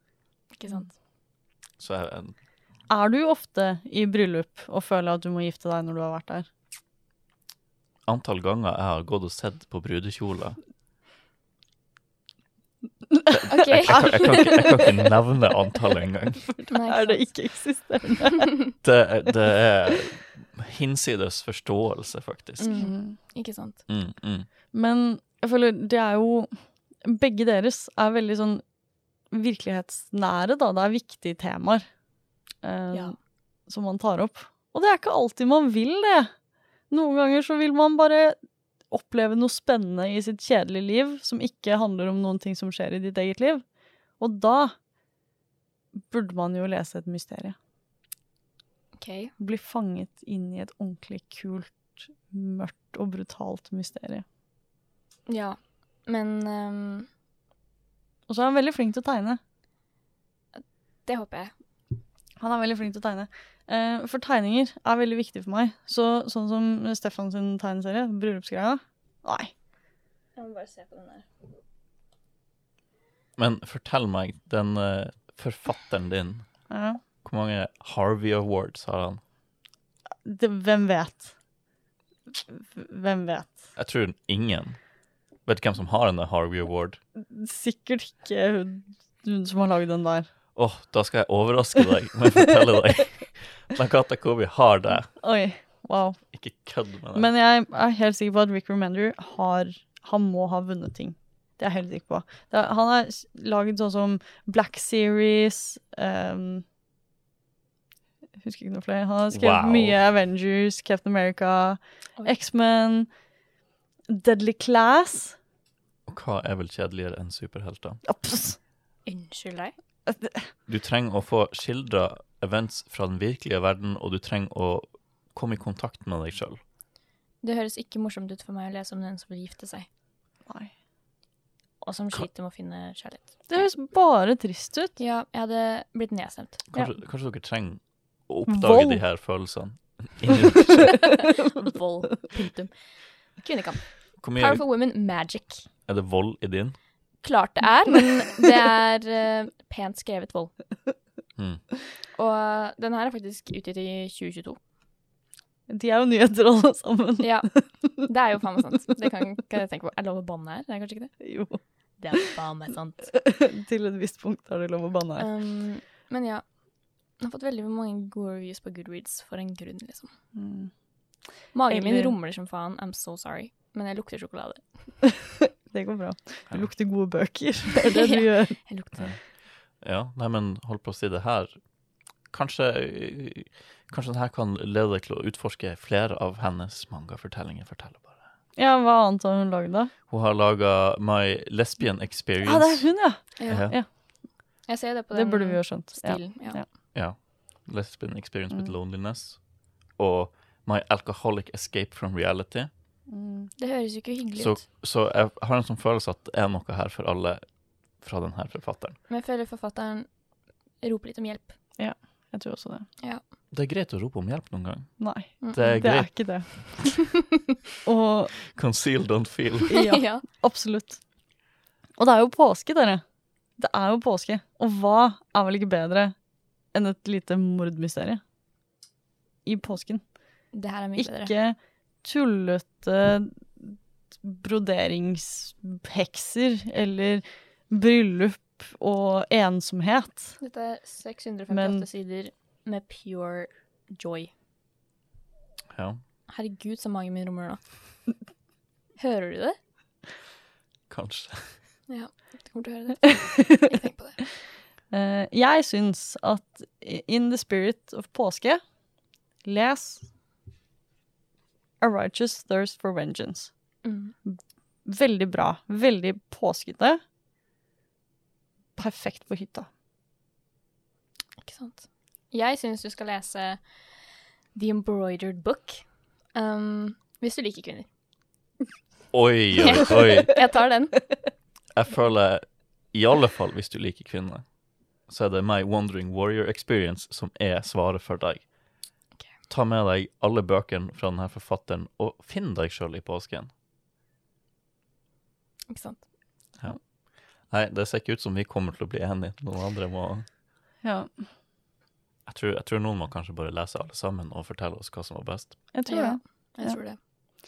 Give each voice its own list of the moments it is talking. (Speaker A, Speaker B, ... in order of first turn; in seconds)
Speaker A: 0.6-0.9, 13.5-14.7, 16.7-17.3, 22.6-23.8, 49.0-49.3, 55.3-57.1, 60.5-61.5, 70.3-71.2, 119.0-119.7, 127.4-129.9, 131.8-133.7, 135.0-136.9, 141.0-142.7, 143.3-145.6, 147.2-150.5, 152.1-154.6, 157.2-161.1, 162.0-163.1, 165.2-166.4, 167.2-170.1, 171.5-175.0, 177.9-179.1, 193.4-193.7, 194.7-196.6, 203.6-204.6, 209.1-210.1, 210.8-211.5, 215.4-215.8, 219.7-220.2, 230.5-231.3, 240.4-244.3, 246.3-247.6, 249.0-249.6, 251.9-254.2, 263.8-264.1, 271.4-273.6, 274.5-275.8, 276.3-277.9, 279.6-280.9, 295.7-296.0, 305.9-307.0
Speaker B: 1.8-2.3, 8.1-10.6, 13.3-16.6, 18.8-22.7, 23.9-24.5, 73.4-76.5, 77.2-79.2, 83.8-84.8, 85.5-87.0, 90.5-95.1, 96.3-97.3, 109.3-110.0, 116.1-118.0, 120.7-126.6, 136.7-141.2, 144.2-144.6, 145.9-146.8, 151.4-151.7, 179.0-181.6, 182.3-188.2, 190.1-193.7, 196.9-202.7, 204.4-207.5, 208.0-209.0, 213.5-216.7, 218.5-219.8, 245.7-246.0, 250.9-251.6, 279.1-280.4, 281.7-284.4, 285.1-288.5, 289.5-293.5, 297.4-300.2, 302.2-305.6
Speaker C: 2.9-6.5, 13.1-13.4, 13.9-14.9, 16.6-18.5, 22.7-23.1, 24.7-28.6, 29.3-31.8, 32.6-33.1, 33.7-36.3, 36.9-38.4, 38.9-43.6, 44.2-44.7, 45.9-47.5, 49.4-54.2, 58.3-59.4, 62.4-69.5, 76.7-77.0, 80.2-81.3, 82.3-83.6, 87.2-90.3, 95.1-96.2, 97.1-106.6, 108.4-113.1, 114.1-115.4, 118.0-118.6, 120.1-120.5, 130.4-130.7, 133.5-135.0, 138.4-139.0, 155.7-158.0, 161.2-161.6, 163.1-165.3, 170.3-170.7, 171.7-172.1, 175.7-178.6, 188.6-189.9, 192.4-193.9, 195.1-196.7, 203.1-203.5, 211.8-212.8, 215.0-217.1, 217.8-218.3, 219.7-221.0, 222.0-223.0, 223.6-226.1, 226.7-228.2, 229.4-230.0, 231.0-240.4, 241.5-241.8, 254.9-258.6, 259.4-260.1, 261.8-263.5, 264.2-267.0, 268.8-269.7, 300.8-301.1, 305.7-306.8